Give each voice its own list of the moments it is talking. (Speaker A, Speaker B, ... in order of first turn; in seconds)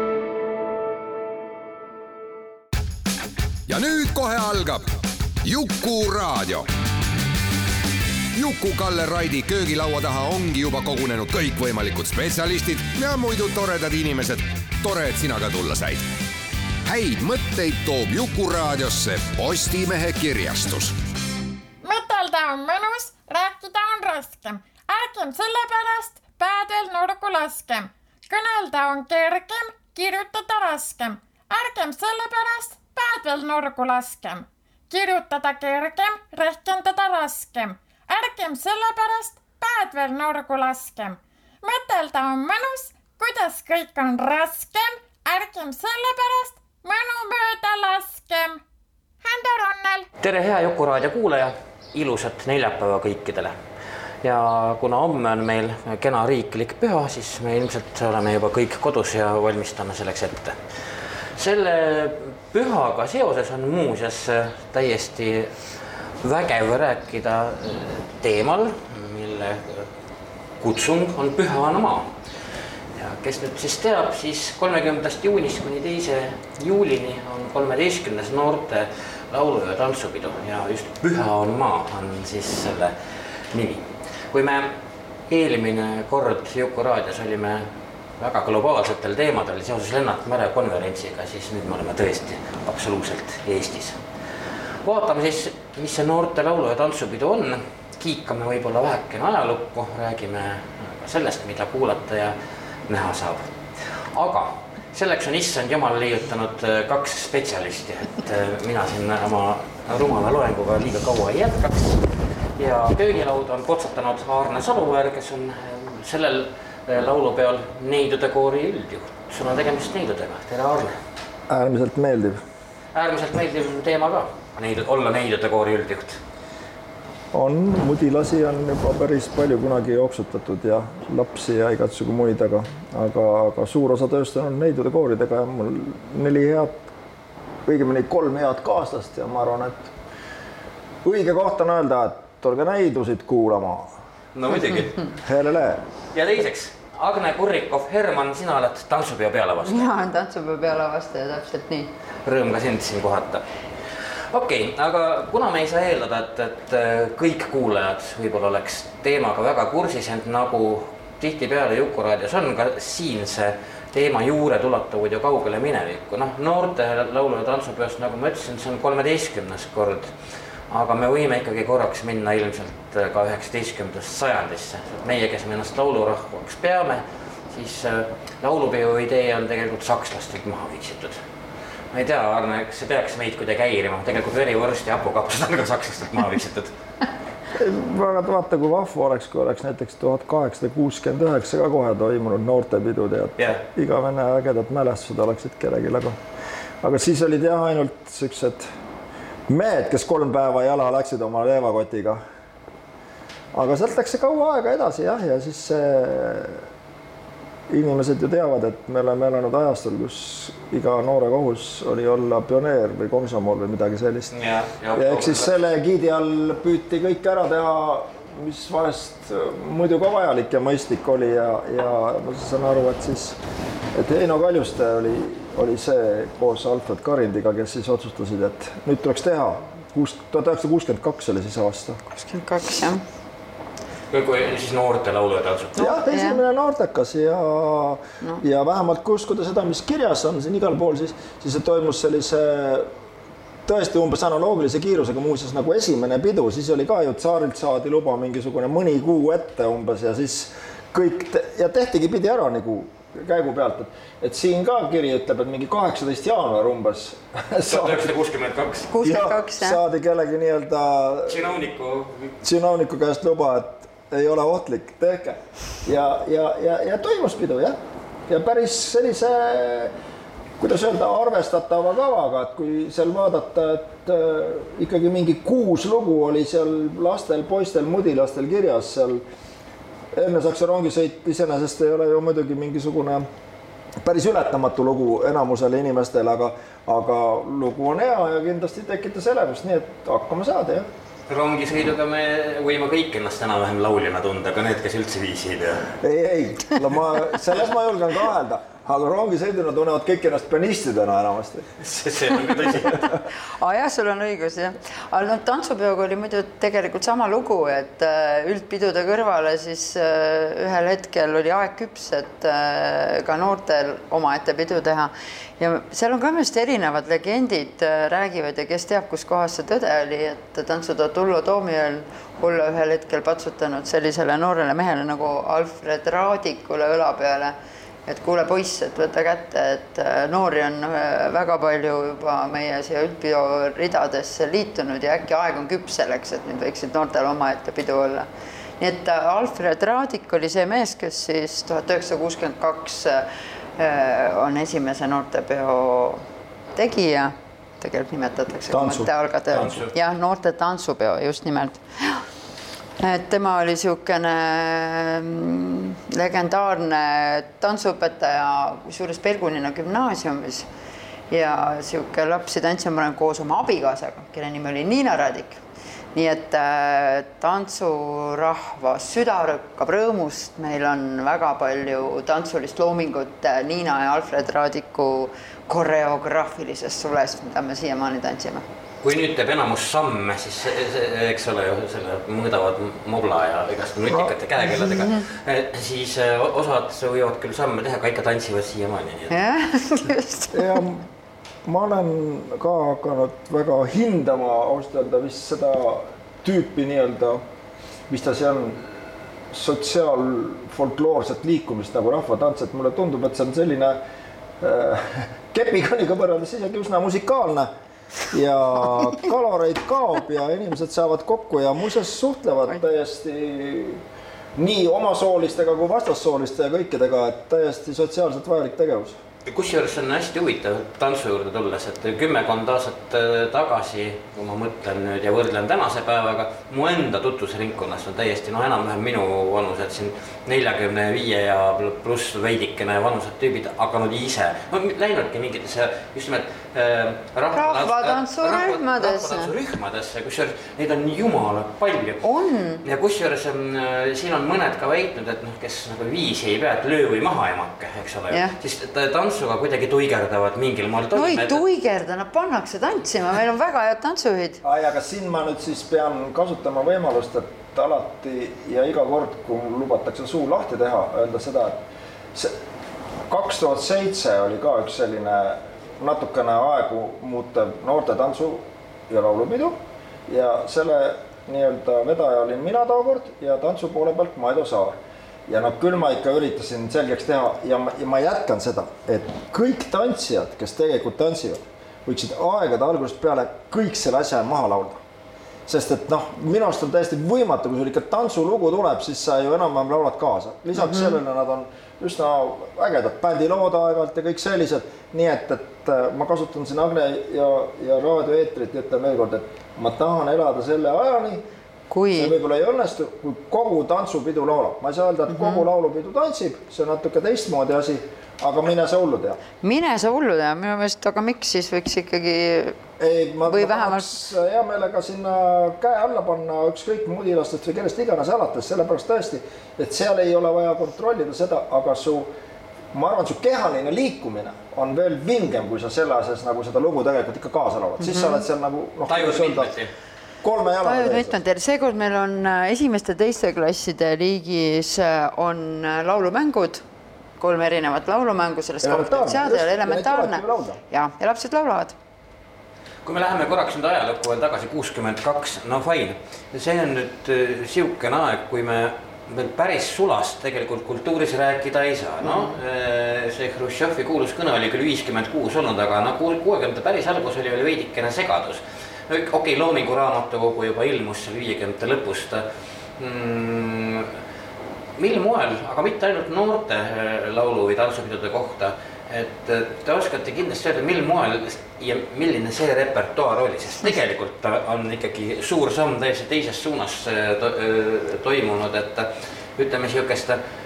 Speaker A: 3.7-4.9, 5.4-6.7, 8.3-16.0, 16.8-20.9
Speaker B: 21.8-48.6, 49.2-50.1
Speaker C: 50.2-53.5, 54.2-60.8, 61.3-69.9, 70.6-72.1, 72.9-82.9, 83.5-84.7, 85.3-87.7, 88.2-94.0, 94.8-102.3, 102.9-121.0, 122.9-126.2, 144.3-145.0, 146.1-149.9, 152.2-153.4, 154.2-170.2, 170.7-181.2, 181.9-186.7, 193.4-193.6, 214.3-215.5, 234.1-235.9, 257.7-258.9, 261.3-262.4, 291.3-295.9, 301.8-303.1, 349.5-349.9, 379.0-389.3, 419.4-442.2, 442.8-451.6, 529.1-529.9, 543.0-562.5, 563.0-564.1, 565.0-580.4
Speaker D: 121.5-122.4, 127.3-136.8, 137.6-139.9, 141.0-143.9, 145.2-145.8, 187.5-196.2, 196.8-198.7, 199.5-202.2, 203.5-206.6, 207.7-214.3, 214.9-223.4, 223.9-232.0, 235.8-242.9, 243.7-258.1, 259.0-261.6, 262.4-269.9, 270.6-279.2, 280.1-283.3, 284.0-290.9, 296.0-301.7, 348.7-349.1, 390.5-391.1, 391.6-397.4, 398.1-399.0, 399.5-404.0, 404.6-407.7, 408.3-414.0, 414.6-419.2, 454.6-461.8, 463.3-485.0, 485.7-501.4, 502.1-509.4, 513.0-522.3, 522.9-529.7, 530.4-531.4, 538.8-540.8
Speaker E: 149.6-151.9, 232.1-233.0, 235.8-236.4, 258.9-259.8, 303.6-327.5, 328.1-338.2, 338.8-343.2, 343.8-346.2, 346.8-352.2, 353.0-360.7, 361.3-365.6, 366.1-378.6, 384.9-385.2, 389.3-390.8, 437.5-439.5, 442.2-442.8, 451.1-454.6, 490.7-491.2, 501.9-502.3, 505.3-505.6, 509.6-512.8, 513.5-514.2, 528.0-528.4, 530.8-536.8, 537.4-541.9, 552.2-552.5